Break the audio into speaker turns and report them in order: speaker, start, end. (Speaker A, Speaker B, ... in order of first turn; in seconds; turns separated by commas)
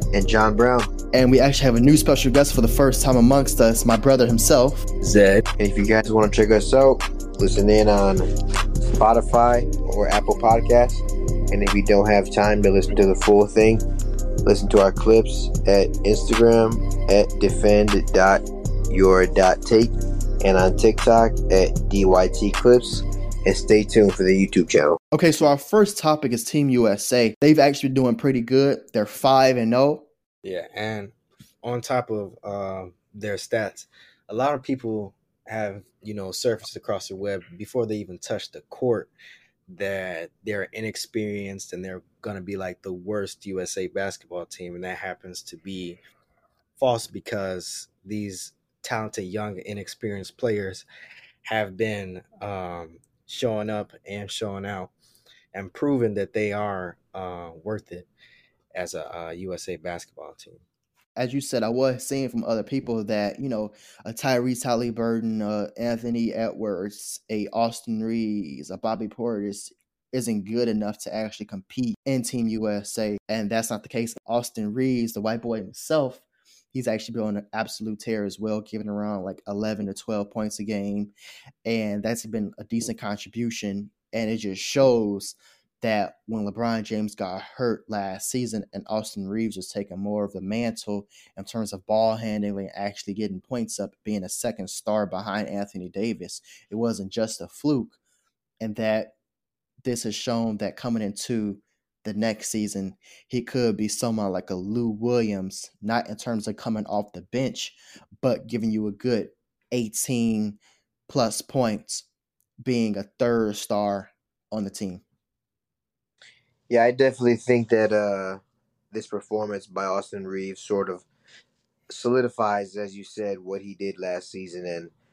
Speaker A: 0.1-0.9, Speaker B: 1.1-4.9, Speaker C: 5.0-5.4, Speaker A: 5.6-8.3, Speaker A: 9.0-13.8, Speaker A: 14.4-25.0, Speaker B: 25.1-30.1, Speaker C: 30.4-39.1, Speaker C: 39.7-46.0, Speaker C: 46.8-50.8, Speaker C: 51.4-54.9, Speaker C: 55.5-58.1, Speaker C: 58.7-60.6, Speaker B: 61.2-81.1, Speaker B: 81.6-98.0, Speaker B: 98.6-99.1, Speaker B: 99.8-112.1, Speaker B: 112.6-115.0, Speaker A: 116.7-121.0, Speaker A: 121.9-124.9